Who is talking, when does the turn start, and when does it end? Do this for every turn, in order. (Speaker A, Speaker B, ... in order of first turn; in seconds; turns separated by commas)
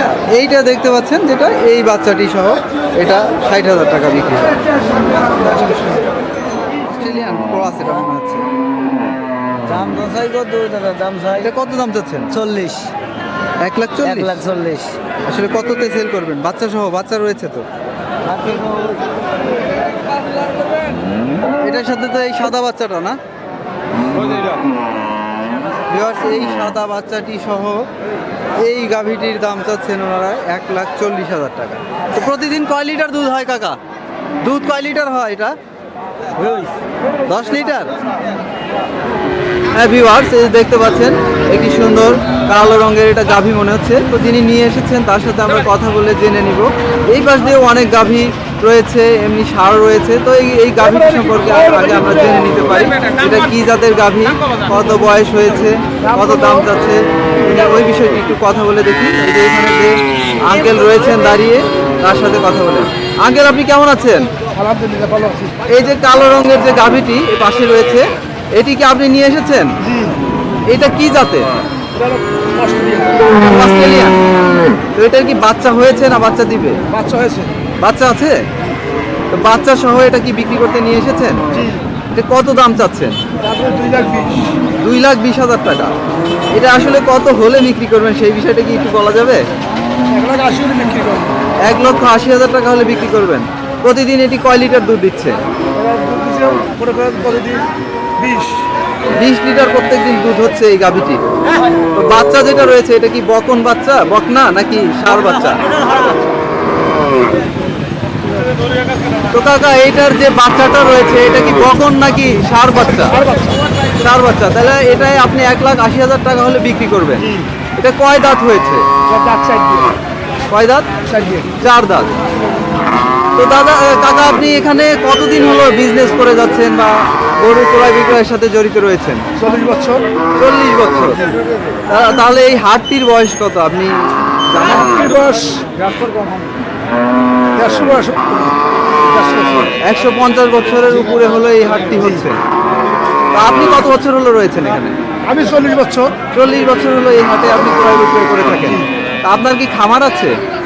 Speaker A: 0.3-4.6, Speaker B: 5.4-6.0, Speaker A: 6.9-8.4, Speaker B: 9.7-11.5, Speaker A: 11.3-12.3, Speaker B: 12.3-12.9, Speaker A: 13.6-14.4, Speaker B: 14.0-14.9, Speaker A: 15.3-17.6, Speaker B: 18.2-19.1, Speaker A: 21.6-23.2, Speaker A: 25.9-27.9, Speaker A: 28.6-33.8, Speaker A: 34.4-35.5, Speaker A: 36.4-36.7, Speaker A: 37.3-37.9, Speaker A: 39.7-64.3, Speaker C: 56.1-56.5, Speaker C: 64.5-65.6, Speaker A: 65.7-69.7, Speaker A: 70.7-71.5, Speaker C: 72.0-73.2, Speaker A: 73.3-74.2, Speaker A: 75.0-76.8, Speaker C: 76.9-77.5, Speaker A: 77.8-78.4, Speaker A: 79.3-81.4, Speaker A: 82.1-83.2, Speaker C: 83.4-84.5, Speaker A: 84.8-86.0, Speaker A: 86.5-89.4, Speaker C: 90.1-91.4, Speaker A: 91.7-95.4, Speaker C: 95.8-98.6, Speaker A: 99.2-101.2, Speaker A: 101.9-105.7, Speaker A: 109.3-113.2, Speaker C: 113.2-113.5, Speaker A: 114.0-118.8, Speaker C: 119.1-119.9, Speaker A: 120.5-120.9, Speaker C: 121.0-121.5, Speaker A: 121.6-122.1, Speaker A: 123.3-129.2, Speaker C: 129.4-130.1, Speaker A: 130.4-131.2, Speaker A: 131.9-133.9, Speaker A: 134.5-135.2, Speaker C: 135.0-136.4, Speaker C: 137.5-139.7, Speaker A: 139.8-142.4, Speaker A: 143.3-144.9, Speaker C: 145.3-146.2, Speaker A: 146.3-150.3